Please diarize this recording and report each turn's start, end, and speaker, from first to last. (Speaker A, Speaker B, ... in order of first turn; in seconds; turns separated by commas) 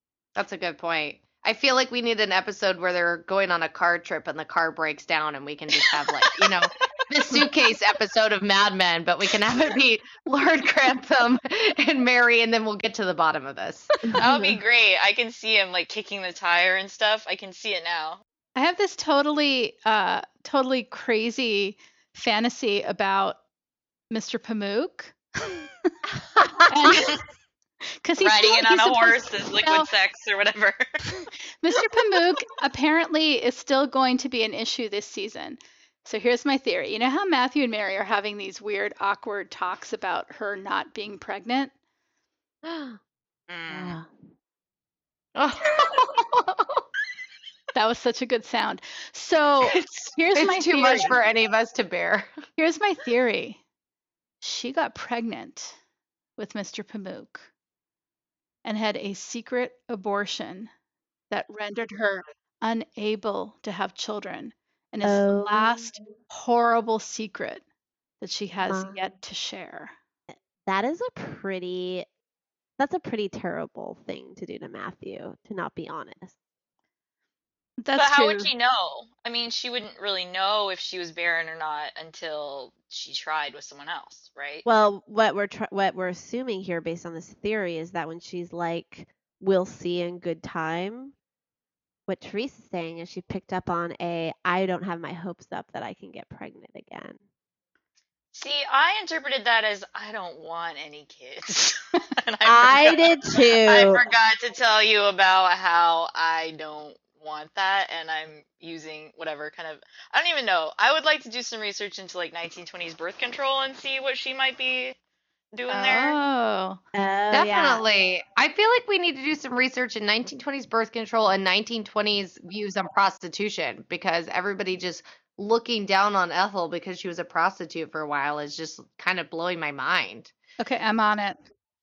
Speaker A: 0.3-13.9, Speaker B: 14.1-14.6, Speaker C: 14.2-18.2, Speaker D: 18.5-23.4, Speaker D: 24.1-25.9, Speaker B: 26.4-27.0, Speaker D: 26.7-27.2, Speaker D: 28.0-29.9, Speaker C: 28.2-30.9, Speaker D: 31.6-41.7, Speaker B: 42.6-43.0, Speaker C: 43.5-44.0, Speaker B: 43.7-44.1, Speaker A: 45.3-46.8, Speaker D: 47.7-51.1, Speaker A: 49.6-52.3, Speaker D: 52.6-53.6, Speaker D: 54.4-55.8, Speaker D: 56.4-57.5, Speaker D: 58.6-60.7, Speaker D: 61.3-67.6, Speaker B: 65.0-65.9, Speaker D: 68.2-69.9, Speaker B: 68.6-69.0, Speaker B: 70.3-72.0, Speaker B: 72.8-76.3, Speaker D: 77.8-78.5, Speaker C: 77.9-84.6, Speaker B: 84.6-91.1, Speaker B: 92.1-97.2, Speaker C: 98.3-115.0, Speaker B: 102.4-104.0, Speaker C: 115.5-116.2, Speaker D: 115.7-116.8, Speaker B: 116.9-117.8, Speaker A: 117.3-130.3, Speaker D: 130.6-131.4